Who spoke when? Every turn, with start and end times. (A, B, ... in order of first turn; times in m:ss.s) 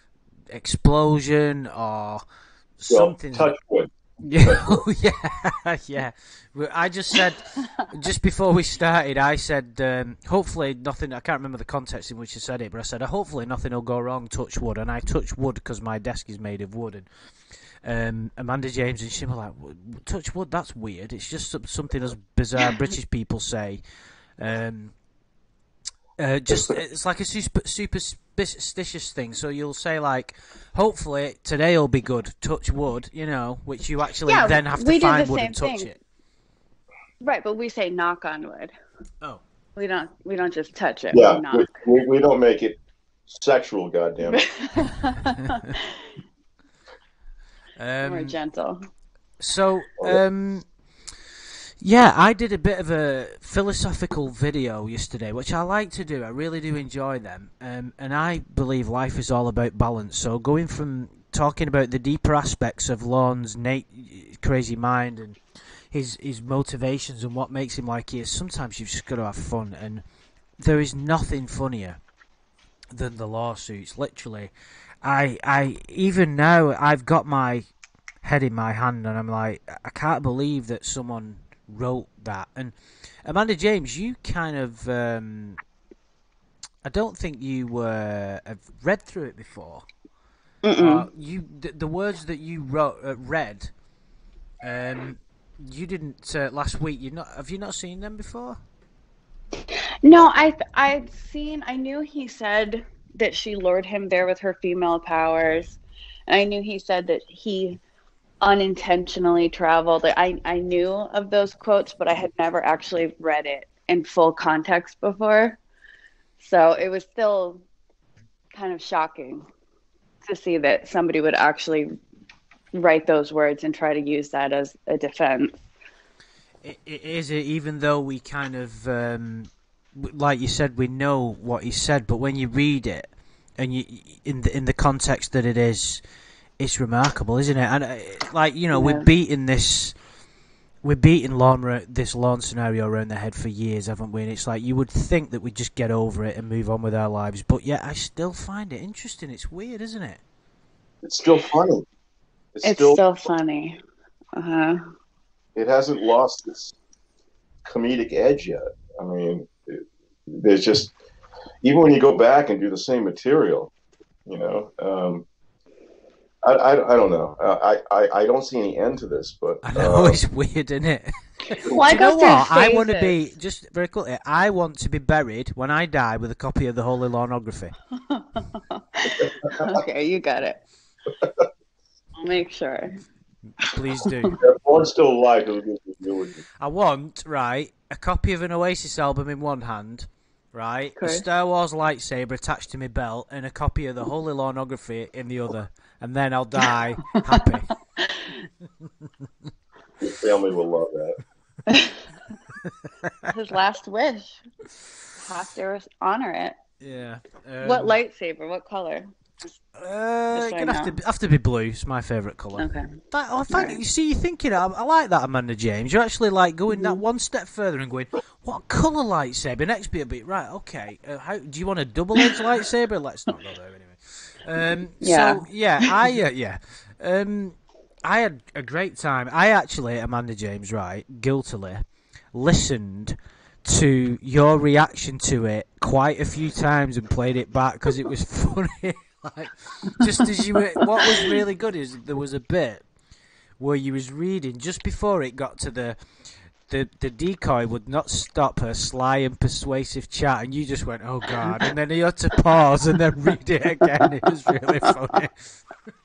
0:00.5-0:02.2 A
0:02.8-0:03.5 A
0:02.9-0:04.8 B
0:04.2-0:17.1 A
0:17.8-0:23.8 A
0:24.4-0:24.9 A
0:26.2-0:36.0 A
0:34.2-0:35.9 C
0:37.2-0:38.7 C
0:39.8-0:41.7 C
0:41.1-0:44.4 B
0:44.2-0:46.1 C
0:45.4-0:45.7 A
0:47.8-0:48.3 A
0:48.0-0:48.8 C
0:49.4-0:50.7 A
0:51.8-1:05.4 A
1:05.9-1:10.0 A
1:10.6-1:12.0 A
1:12.9-1:14.5 A
1:15.0-1:17.7 A
1:18.2-1:25.6 A
1:26.8-1:29.8 A
1:30.6-1:31.1 C
1:30.7-1:33.7 A
1:34.6-1:38.6 A
1:39.7-1:47.8 C
1:48.4-1:55.6 C
1:56.4-1:57.6 C
1:58.5-1:59.4 C
2:00.2-2:01.9 C
2:02.7-2:05.6 C
2:06.6-2:16.0 A
2:16.6-2:19.9 A
2:18.7-2:19.1 C
2:20.8-2:30.2 A
2:31.0-2:31.8 B
2:32.5-2:33.0 B
2:32.6-2:33.8 C
2:34.4-2:34.8 C
2:35.5-2:36.8 B
2:37.6-2:40.9 B
2:41.6-2:43.7 B
2:44.2-2:45.2 B
2:46.4-2:50.2 B
2:49.6-2:57.7 A
2:51.6-2:53.2 C
2:58.1-3:00.6 C
2:59.2-2:59.8 B
3:01.2-3:01.4 B
3:02.2-3:03.0 C
3:03.5-3:04.4 A
3:04.0-3:04.3 C
3:04.4-3:06.4 B
3:06.6-3:17.7 A
3:11.0-3:11.2 C
3:18.0-3:18.3 C
3:20.0-3:21.2 B
3:21.7-3:22.1 C
3:22.6-3:23.3 A
3:23.3-3:24.4 C
3:25.2-3:26.5 C
3:26.8-3:28.0 A
3:27.6-3:29.1 C
3:29.8-4:02.8 A
3:30.3-3:31.0 C
3:32.6-3:33.0 C
3:33.5-3:33.8 C
3:36.7-3:37.0 C
3:45.0-3:46.0 C
4:01.1-4:01.4 C
4:03.6-4:06.0 A
4:06.7-4:15.6 A